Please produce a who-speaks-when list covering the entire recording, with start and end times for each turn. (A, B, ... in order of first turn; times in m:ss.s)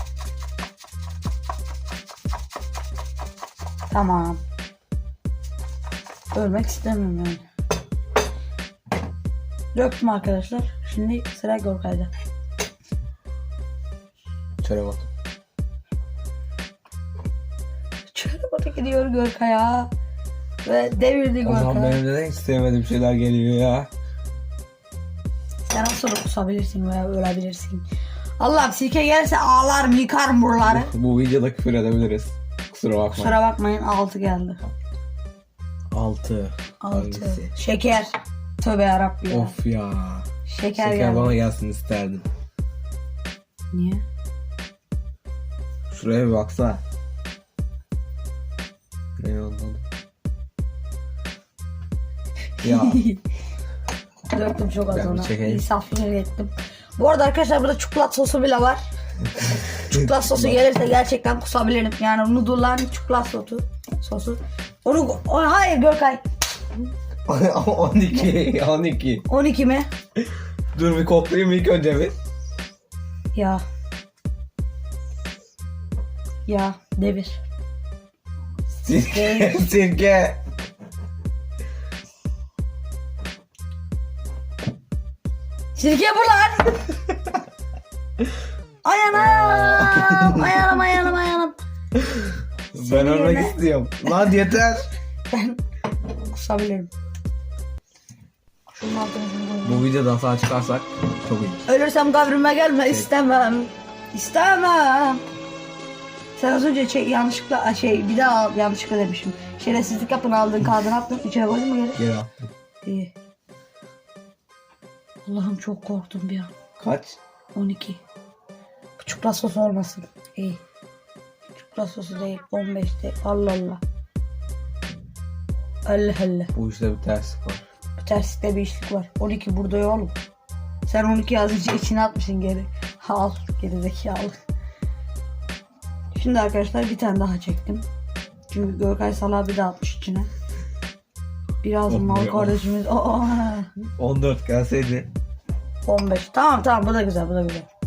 0:03.9-0:04.4 A
0:06.3-0:07.4 A
0:09.7-0:12.1 A
0:14.6-0:15.1 B
0:18.1-0:19.9 A
0:20.6-0:22.0 A
0:21.4-0:23.9 B
0:25.6-0:27.8 A
0:28.4-0:30.9 A
0:30.6-0:33.4 B
0:33.1-0:34.6 A
0:35.9-0:37.5 B
0:36.8-0:39.5 A
0:39.3-0:42.3 B
0:40.5-0:41.4 A
0:43.7-0:44.0 A
0:45.9-0:46.8 B
0:49.2-0:49.8 B
0:52.6-0:53.0 B
0:52.6-0:53.2 A
0:54.3-0:58.8 A
0:54.9-0:55.6 B
0:59.9-1:06.2 A
0:59.9-1:00.6 B
1:07.2-1:09.3 B
1:09.3-1:09.9 A
1:10.7-1:12.1 B
1:13.3-1:13.6 A
1:16.4-1:17.4 A
1:18.8-1:20.4 B
1:19.0-1:19.6 A
1:25.8-1:26.9 A
1:28.8-1:31.6 A
1:29.1-1:30.6 B
1:32.0-1:34.9 B
1:32.7-1:33.6 A
1:35.3-1:35.6 A
1:36.3-1:36.9 A
1:38.7-1:39.8 A
1:39.6-1:41.6 B
1:41.6-1:45.2 A
1:46.4-1:52.0 A
1:52.0-1:52.5 B
1:52.8-1:53.1 A
1:55.2-1:56.5 A
1:56.8-1:57.2 B
1:57.5-1:58.0 A
1:59.0-2:00.6 A
2:01.6-2:03.8 A
2:05.8-2:06.5 A
2:06.5-2:07.6 B
2:08.0-2:10.1 A
2:10.9-2:14.3 A
2:16.1-2:17.8 A
2:18.5-2:20.3 A
2:21.6-2:23.7 A
2:21.9-2:22.6 B
2:24.0-2:25.1 B
2:25.8-2:27.7 A